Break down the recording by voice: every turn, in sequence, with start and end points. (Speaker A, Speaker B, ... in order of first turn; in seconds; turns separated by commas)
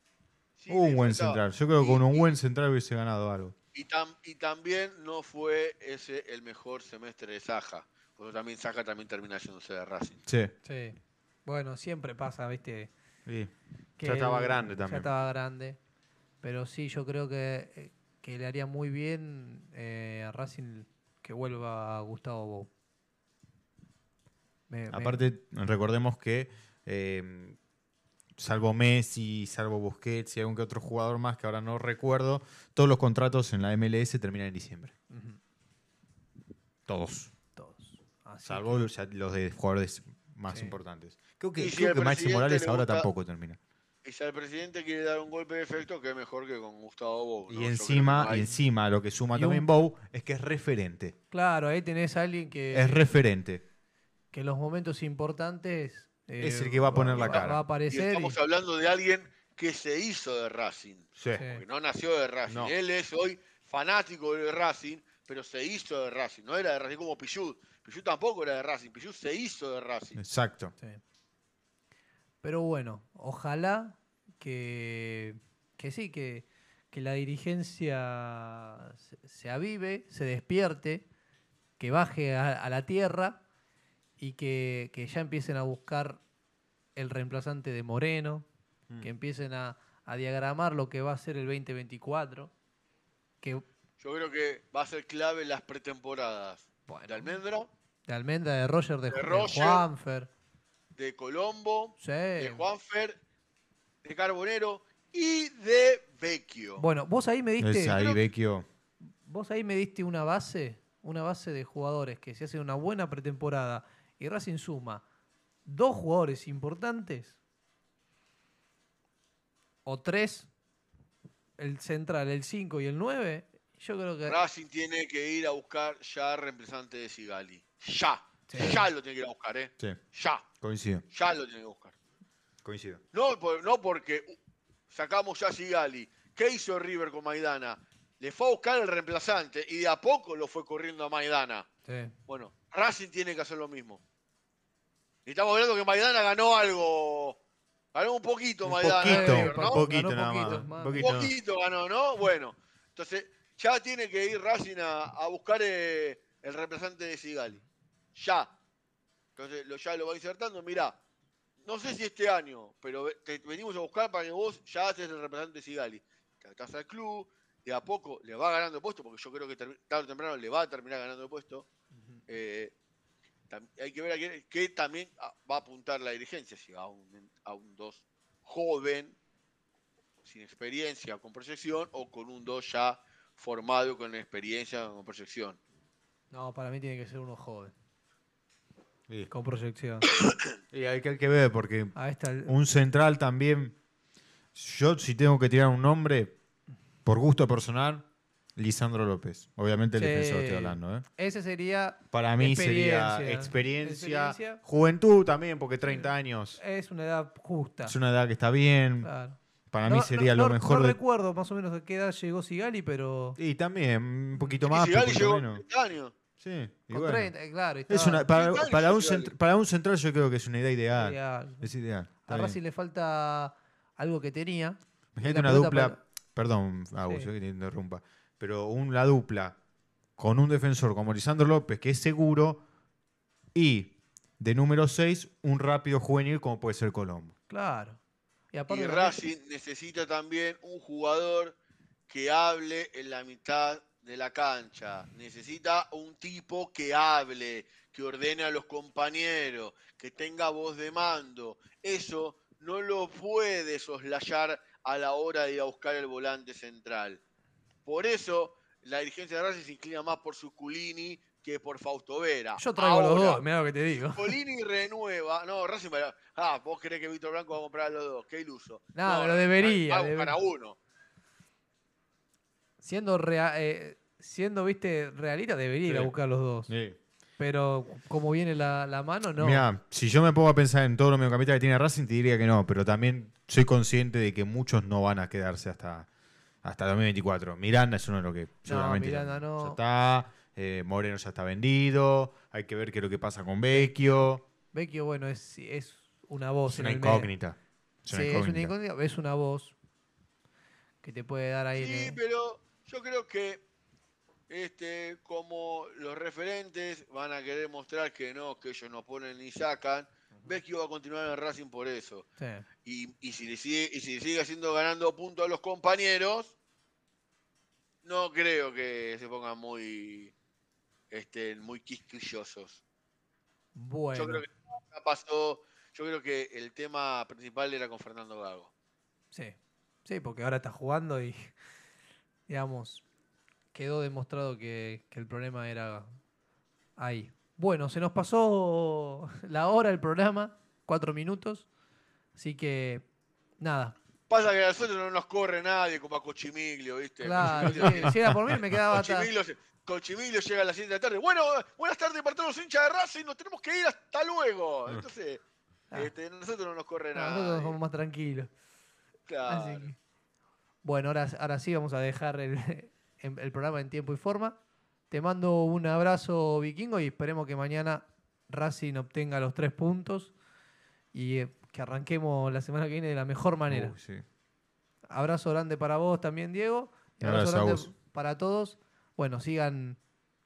Speaker A: 0.6-2.3, Speaker B: 0.7-3.5, Speaker A: 3.7-10.2, Speaker B: 10.2-10.5, Speaker C: 10.6-12.9, Speaker B: 13.2-15.1, Speaker C: 14.0-15.8, Speaker C: 16.4-22.7, Speaker C: 24.7-25.2, Speaker B: 24.9-27.6, Speaker B: 28.4-34.9, Speaker C: 35.1-35.4, Speaker B: 36.9-37.3, Speaker C: 37.5-38.9, Speaker B: 38.4-43.6, Speaker C: 40.5-40.8, Speaker A: 41.6-43.1, Speaker A: 44.0-48.5, Speaker B: 47.5-51.1, Speaker C: 49.3-49.7, Speaker C: 51.3-53.0, Speaker B: 52.7-53.6, Speaker C: 54.3-58.4, Speaker B: 56.4-57.6, Speaker A: 57.3-70.2, Speaker B: 61.2-61.4, Speaker C: 61.3-61.6, Speaker B: 62.5-62.7, Speaker B: 70.2-70.7, Speaker C: 72.4-81.0, Speaker C: 81.8-83.4, Speaker C: 84.2-86.2, Speaker C: 87.0-88.5, Speaker C: 89.0-92.5, Speaker A: 94.0-97.7, Speaker C: 96.9-97.3, Speaker C: 98.1-100.3, Speaker A: 99.1-99.9, Speaker A: 101.0-103.2, Speaker C: 102.0-102.6, Speaker A: 104.0-106.8, Speaker C: 106.8-108.0, Speaker B: 107.6-108.7, Speaker A: 107.9-108.2, Speaker C: 109.2-115.0, Speaker C: 115.7-117.4, Speaker C: 119.8-120.5, Speaker C: 121.6-124.4, Speaker A: 124.2-130.5, Speaker C: 128.5-128.8, Speaker B: 130.6-131.0, Speaker A: 131.1-131.9, Speaker B: 132.6-133.0, Speaker A: 133.1-134.3, Speaker A: 134.9-141.7, Speaker C: 141.8-142.1, Speaker A: 142.3-144.0, Speaker A: 145.2-147.4, Speaker A: 147.9-149.9, Speaker B: 148.7-151.3, Speaker C: 148.9-151.1, Speaker A: 150.5-157.6, Speaker A: 158.2-158.5, Speaker A: 159.4-161.0, Speaker A: 161.6-171.7, Speaker C: 171.9-172.2, Speaker A: 172.3-172.7, Speaker A: 173.5-179.2, Speaker A: 180.2-185.6, Speaker C: 186.3-187.7, Speaker C: 189.3-190.1, Speaker B: 190.7-193.8, Speaker C: 191.9-192.5, Speaker B: 194.5-196.3, Speaker B: 197.1-201.0, Speaker C: 199.9-204.6, Speaker B: 202.1-206.6, Speaker C: 205.8-207.9, Speaker B: 207.8-209.1, Speaker C: 209.0-213.4, Speaker B: 209.7-211.0, Speaker B: 213.4-215.6, Speaker A: 214.7-216.1, Speaker B: 216.4-217.3, Speaker C: 216.9-218.3, Speaker B: 217.9-222.6, Speaker A: 218.3-219.3, Speaker C: 220.9-221.7, Speaker C: 222.2-226.0, Speaker B: 225.2-229.6, Speaker B: 230.2-232.6, Speaker B: 233.5-237.3, Speaker C: 237.5-238.0, Speaker C: 238.5-239.2, Speaker A: 238.7-241.6, Speaker A: 242.1-257.2, Speaker A: 257.9-263.4, Speaker C: 262.6-264.4, Speaker A: 264.0-270.8, Speaker C: 268.9-270.4, Speaker C: 272.8-276.7, Speaker B: 275.9-276.1, Speaker B: 276.7-277.0, Speaker C: 277.4-279.6, Speaker B: 279.4-286.1, Speaker B: 286.6-294.4, Speaker C: 288.6-289.8, Speaker C: 293.7-293.9, Speaker C: 294.7-297.3, Speaker B: 296.7-298.7, Speaker C: 298.1-299.7, Speaker C: 301.0-302.2, Speaker A: 301.8-303.6, Speaker A: 304.5-312.3, Speaker C: 312.4-312.6, Speaker A: 312.8-316.5, Speaker A: 318.0-320.3, Speaker A: 321.1-322.8, Speaker C: 323.7-324.4, Speaker A: 324.1-328.7, Speaker C: 329.3-331.5, Speaker C: 332.5-333.0, Speaker C: 333.7-336.2, Speaker C: 337.0-341.7, Speaker C: 342.4-343.0, Speaker C: 343.6-343.9, Speaker A: 344.3-348.1, Speaker C: 347.2-349.3, Speaker B: 347.4-348.8, Speaker A: 348.9-355.4, Speaker A: 355.9-357.8, Speaker C: 357.1-358.5, Speaker A: 359.3-359.9, Speaker C: 359.5-359.9, Speaker C: 360.8-364.6, Speaker C: 365.1-370.3, Speaker C: 371.1-373.9, Speaker B: 373.7-374.2, Speaker C: 375.1-380.0, Speaker B: 377.2-377.9